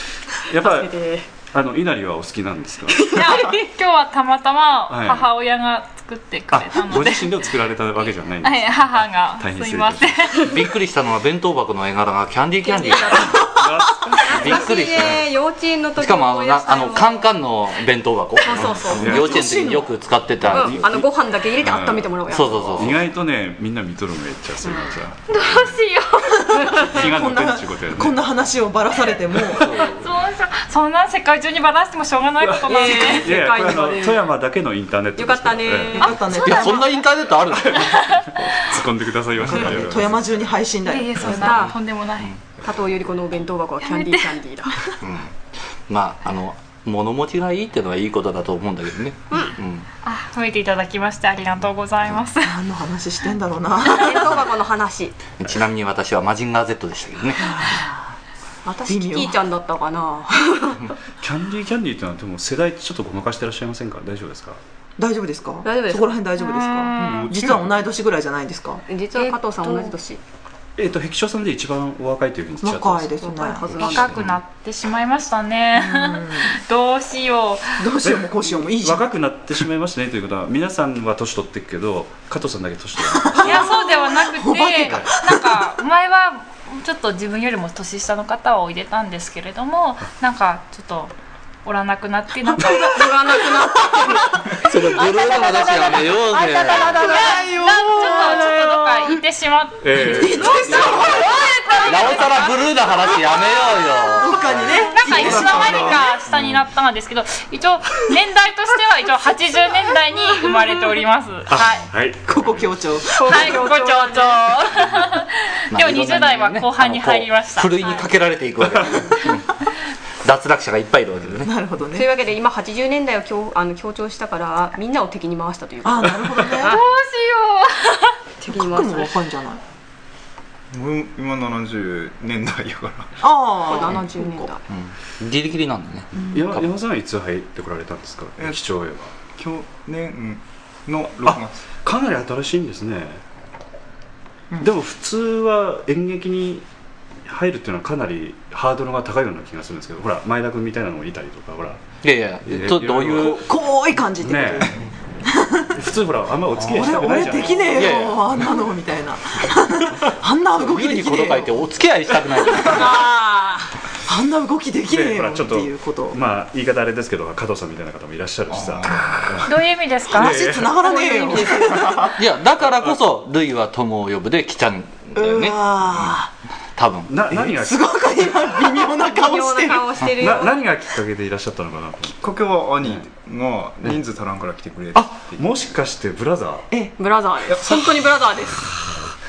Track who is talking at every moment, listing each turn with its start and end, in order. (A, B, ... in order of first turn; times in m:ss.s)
0:00.5-0:03.1 A
0:00.6-0:01.3 B
0:03.0-0:03.5 B
0:03.1-0:07.3 C
0:04.9-0:05.3 A
0:06.5-0:10.2 A
0:08.4-0:10.4 C
0:10.4-0:13.4 D
0:12.6-0:17.3 B
0:13.4-0:15.2 A
0:14.2-0:15.3 D
0:16.0-0:20.9 D
0:18.4-0:19.5 B
0:18.5-0:19.4 A
0:19.0-0:19.9 E
0:20.4-0:22.2 A
0:20.5-0:23.0 B
0:22.3-0:23.0 D
0:22.7-0:25.7 A
0:25.3-0:26.9 C
0:26.4-0:29.8 E
0:26.7-0:28.2 A
0:29.5-0:30.0 D
0:29.8-0:33.3 C
0:32.4-0:36.2 A
0:32.7-0:34.3 B
0:35.2-0:36.3 B
0:36.0-0:37.0 E
0:36.0-0:36.7 C
0:36.4-0:38.0 D
0:37.6-0:40.3 A
0:37.8-0:38.3 C
0:39.4-0:41.6 E
0:40.9-0:42.3 C
0:41.2-0:41.8 B
0:42.6-0:45.0 B
0:43.8-0:44.4 C
0:45.0-0:45.3 D
0:45.9-0:49.9 D
0:50.0-0:52.6 C
0:52.4-0:54.5 E
0:53.9-0:55.2 B
0:55.4-0:57.6 D
0:57.4-0:58.1 E
0:58.6-0:59.4 E
0:58.8-1:00.9 B
1:01.2-1:04.6 A
1:05.0-1:08.8 E
1:05.6-1:06.2 B
1:06.4-1:07.3 C
1:07.0-1:07.8 A
1:08.9-1:10.2 B
1:09.2-1:10.0 C
1:10.8-1:14.4 A
1:12.6-1:13.8 E
1:13.2-1:14.2 B
1:13.7-1:17.8 C
1:15.8-1:16.6 E
1:17.8-1:19.1 E
1:18.0-1:23.8 A
1:23.1-1:25.6 E
1:23.4-1:31.1 C
1:31.6-1:33.0 C
1:32.6-1:36.1 B
1:34.6-1:37.0 D
1:36.4-1:43.2 C
1:36.5-1:38.6 E
1:36.8-1:37.5 B
1:38.2-1:38.5 B
1:39.8-1:41.0 A
1:40.0-1:41.5 E
1:41.8-1:44.4 D
1:44.2-1:46.0 E
1:44.6-1:46.6 A
1:44.9-1:51.9 C
1:51.5-1:52.8 A
1:52.3-1:53.6 E
1:53.1-1:54.6 B
1:53.2-1:58.1 C
1:55.7-1:59.5 D
1:58.8-1:59.1 A
2:00.2-2:01.5 D
2:01.4-2:02.1 E
2:01.9-2:06.8 B
2:05.8-2:06.8 E
2:06.6-2:08.2 C
2:08.4-2:09.2 B
2:08.5-2:09.6 E
2:10.7-2:13.2 F
2:13.2-2:14.5 E
2:13.6-2:14.6 B
2:14.7-2:16.6 D
2:16.3-2:19.1 A
2:19.4-2:21.7 F
2:21.2-2:23.2 A
2:24.6-2:26.7 A
2:27.2-2:31.8 A
2:32.0-2:33.4 D
2:32.4-2:33.4 A
2:33.2-2:35.8 E
2:34.2-2:34.8 A
2:35.7-2:37.8 A
2:36.6-2:41.7 E
2:36.8-2:37.1 F
2:37.7-2:38.3 D
2:40.6-2:43.0 D
2:42.6-2:43.7 B
2:44.0-2:46.2 E
2:44.9-2:49.6 A
2:48.5-2:49.5 F
2:49.4-2:50.4 C
2:50.1-2:50.8 A
2:50.1-2:52.2 E
2:50.8-2:52.2 B
2:52.2-2:55.8 D
2:55.2-2:56.3 E
2:56.8-2:57.1 D
2:57.1-2:57.9 A
2:57.6-3:00.0 E
2:58.8-3:00.6 B
3:00.2-3:02.2 A
3:02.1-3:05.6 F
3:02.8-3:03.1 A
3:04.9-3:06.7 A
3:07.0-3:08.7 B
3:07.5-3:08.1 F